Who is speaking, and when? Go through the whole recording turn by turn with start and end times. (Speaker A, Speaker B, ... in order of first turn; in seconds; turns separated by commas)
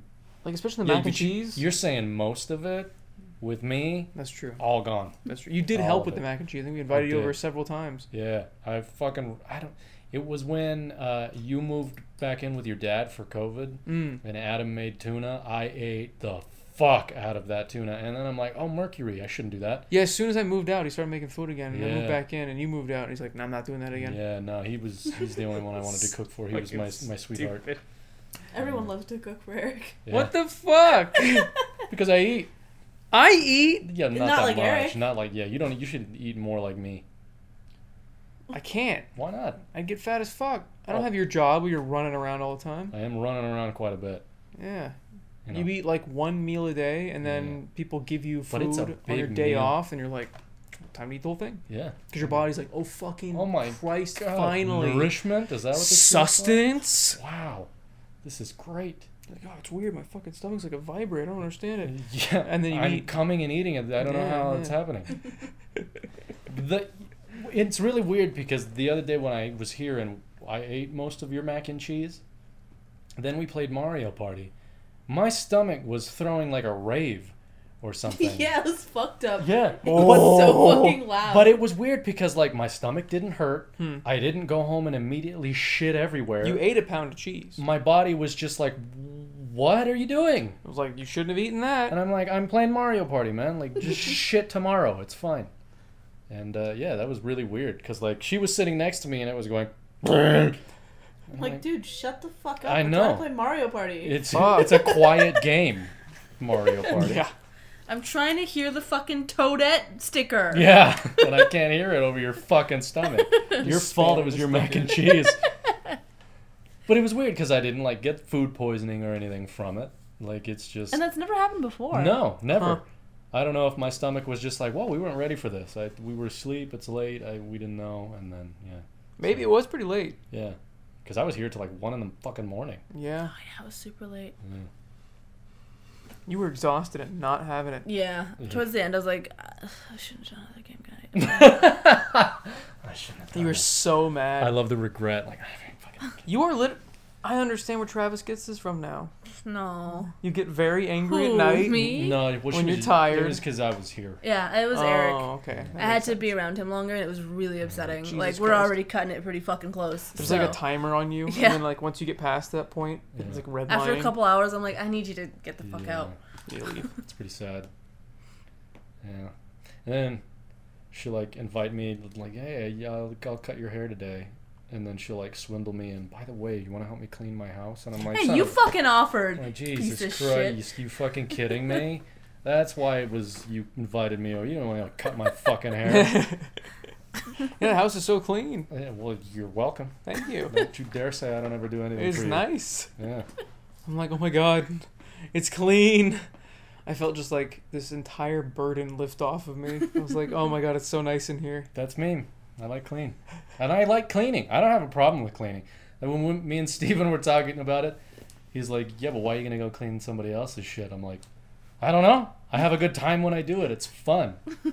Speaker A: 0.4-1.6, Speaker B: 0.8-6.2, Speaker A: 4.2-4.6, Speaker A: 5.2-8.1, Speaker B: 6.9-7.4, Speaker B: 8.1-19.9, Speaker A: 13.9-14.2, Speaker A: 19.9-24.2, Speaker B: 21.7-22.2, Speaker B: 23.9-27.7, Speaker A: 26.5-27.8, Speaker C: 28.5-30.0, Speaker B: 28.6-28.9, Speaker B: 30.1-30.4, Speaker A: 30.1-31.5, Speaker C: 31.2-31.5, Speaker B: 31.9-32.5, Speaker A: 33.1-33.9, Speaker B: 33.8-37.0, Speaker C: 34.1-35.0, Speaker A: 38.5-39.1, Speaker B: 39.2-39.6, Speaker A: 39.7-43.0, Speaker B: 42.9-44.2, Speaker A: 44.6-45.0, Speaker B: 45.5-45.8, Speaker A: 45.5-50.3, Speaker B: 47.2-47.6, Speaker B: 48.5-49.8, Speaker A: 50.9-55.2, Speaker B: 51.7-52.5, Speaker B: 53.3-57.7, Speaker A: 55.7-57.2, Speaker B: 58.2-59.1, Speaker A: 59.3-63.2, Speaker B: 61.9-65.2, Speaker A: 64.0-64.8, Speaker B: 66.5-72.2, Speaker B: 73.2-74.5, Speaker B: 75.1-78.5, Speaker C: 78.1-81.6, Speaker B: 79.4-86.7, Speaker A: 79.9-80.3, Speaker A: 83.8-84.0, Speaker A: 86.4-87.6, Speaker B: 87.6-90.6, Speaker A: 90.6-92.0, Speaker B: 91.9-95.5, Speaker B: 96.3-100.6, Speaker B: 101.3-101.6, Speaker C: 101.3-104.2, Speaker B: 102.6-103.3, Speaker B: 104.0-107.3, Speaker A: 104.3-105.0, Speaker A: 106.9-107.3, Speaker C: 107.9-110.8, Speaker B: 110.5-115.4, Speaker A: 113.6-115.1, Speaker B: 116.9-121.0, Speaker C: 120.9-122.2, Speaker B: 121.9-129.5, Speaker A: 122.5-122.8, Speaker A: 129.2-130.2, Speaker B: 130.3-132.8, Speaker A: 132.9-133.3, Speaker C: 133.3-134.3, Speaker B: 134.4-134.7, Speaker A: 136.3-137.9, Speaker C: 137.8-141.7, Speaker B: 138.4-138.7, Speaker B: 141.2-143.8, Speaker A: 143.3-144.6, Speaker B: 144.4-146.2, Speaker A: 146.2-149.1, Speaker C: 149.4-150.1, Speaker A: 150.2-153.4, Speaker C: 151.0-152.2, Speaker B: 151.8-154.2, Speaker C: 154.2-160.6, Speaker A: 154.7-156.3, Speaker A: 158.0-158.8, Speaker A: 160.2-164.2, Speaker B: 160.2-160.6, Speaker C: 161.2-161.7, Speaker B: 163.2-163.4, Speaker C: 163.7-166.1, Speaker B: 165.6-166.2, Speaker A: 166.5-166.9, Speaker B: 167.0-167.7, Speaker B: 169.0-169.3, Speaker B: 169.8-170.2, Speaker B: 170.9-178.6, Speaker C: 178.1-180.6, Speaker B: 179.3-186.3, Speaker A: 185.8-186.6, Speaker A: 187.4-188.7, Speaker B: 188.7-190.0, Speaker A: 190.1-190.6, Speaker B: 190.5-193.3, Speaker A: 191.9-192.9, Speaker A: 193.8-196.2, Speaker A: 196.9-201.7, Speaker B: 201.7-208.0, Speaker B: 208.5-211.2, Speaker B: 211.8-214.4